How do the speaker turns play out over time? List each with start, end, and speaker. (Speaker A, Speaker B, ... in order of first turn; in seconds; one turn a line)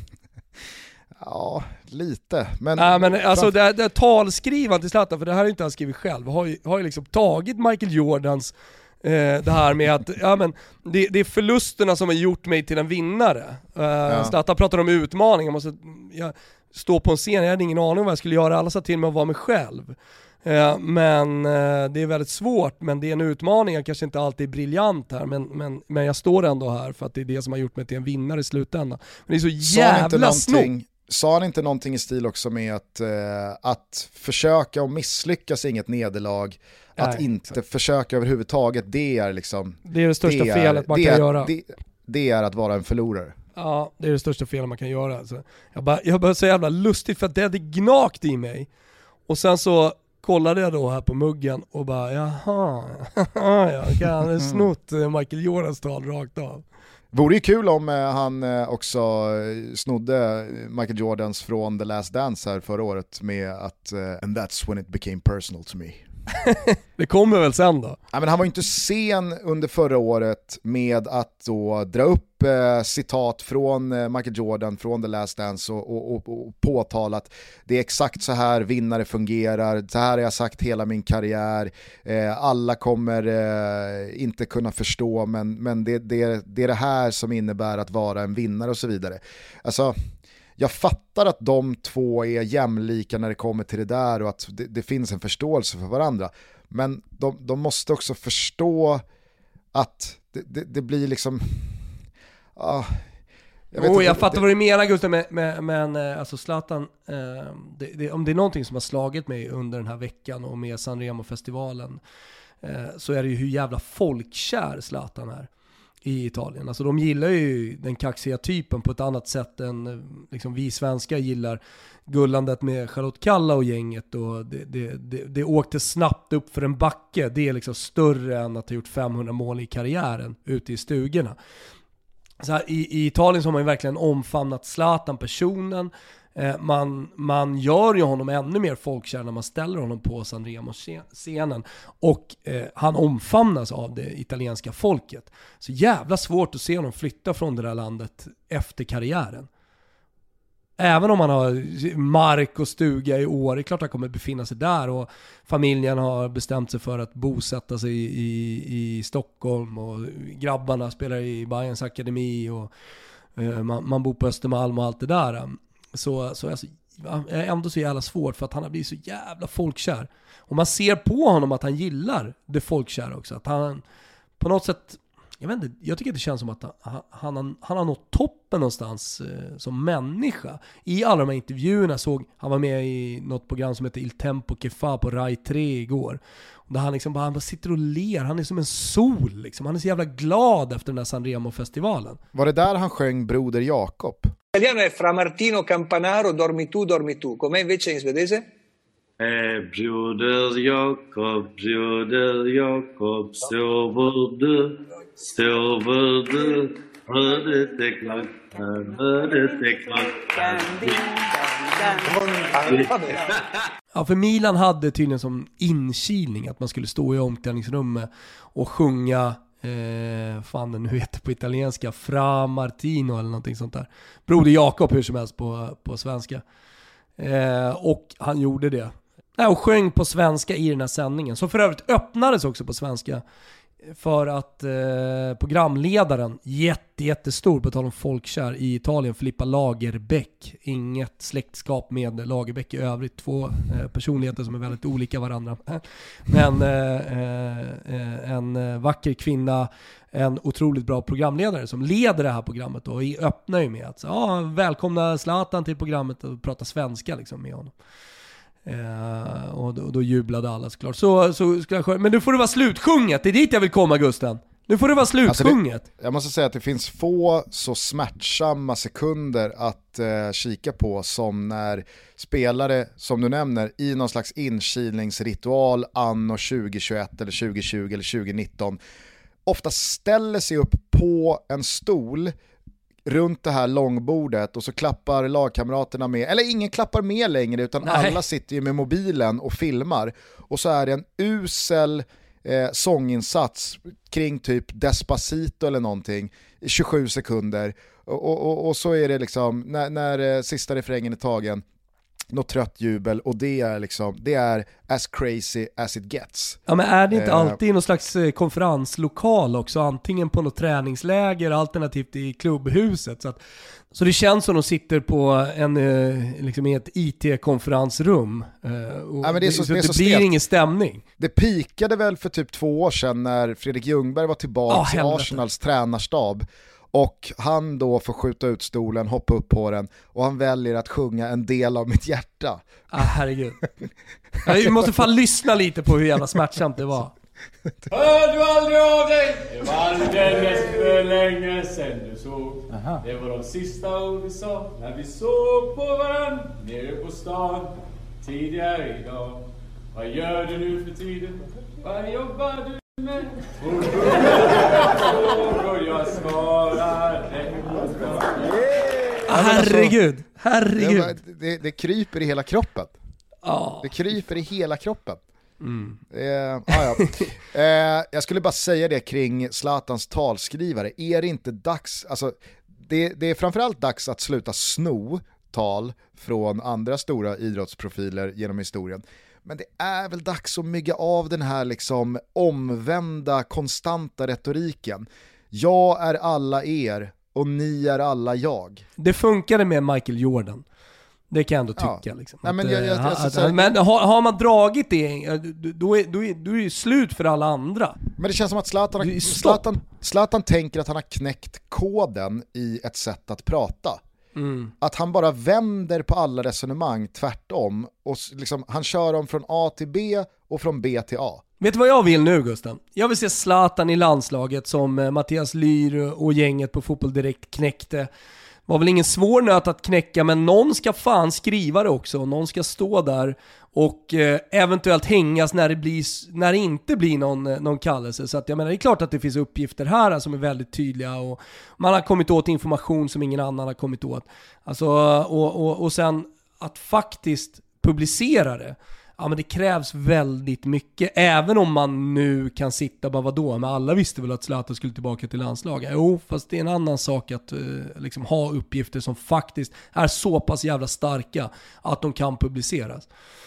Speaker A: 1.2-3.5
Speaker B: 2.8-30.7
Speaker A: 14.1-14.3
Speaker A: 29.6-43.4
Speaker B: 37.0-37.3
Speaker B: 39.9-41.5
Speaker B: 43.6-48.7
Speaker B: 49.3-56.6
Speaker A: 54.4-54.7
Speaker A: 57.1-66.0
Speaker B: 66.5-68.0
Speaker A: 68.1-90.0
Speaker A: 90.6-99.0
Speaker A: 99.7-101.8
Speaker A: 102.6-103.1
Speaker A: 103.7-104.5
Speaker B: 103.8-112.0
Speaker B: 112.6-115.5
Speaker B: 116.0-131.4
Speaker B: 132.4-149.5
Speaker B: 150.8-162.7
Speaker B: 163.4-173.8
Speaker B: 174.4-192.2
Speaker A: 192.3-194.3
Speaker C: 194.5-198.4
Speaker D: 199.2-211.2
Speaker C: 211.9-213.3
Speaker D: 212.7-212.9
Speaker B: 213.9-226.4
Speaker B: 227.2-233.2
Speaker B: 234.0-257.7
Speaker B: 258.7-265.9
Speaker A: 265.3-278.8
Speaker A: 279.5-282.3
Speaker A: 283.1-301.6
Speaker B: 287.8-288.2
Speaker A: 302.3-306.6
Speaker B: 306.7-313.4
Speaker A: 307.1-307.6
Speaker B: 313.9-321.0
Speaker A: 319.2-320.4
Speaker A: 321.2-332.7
Speaker B: 324.7-325.4
Speaker B: 332.9-333.6
Speaker B: 334.4-337.1
Speaker E: 337.9-358.7
Speaker A: 359.3-359.9
Speaker B: 359.3-361.1
Speaker A: 360.8-362.9
Speaker B: 363.4-363.9
Speaker A: 363.8-365.2
Speaker B: 365.6-366.0
Speaker A: 366.1-388.9
Speaker B: 366.7-367.3
Speaker B: 389.0-390.6
Speaker B: 391.3-398.0
Speaker A: 391.8-393.7
Speaker A: 398.2-404.0
Speaker B: 399.0-399.7
Speaker B: 404.4-404.7
Speaker A: 404.8-411.4
Speaker B: 411.6-418.1
Speaker B: 418.7-453.1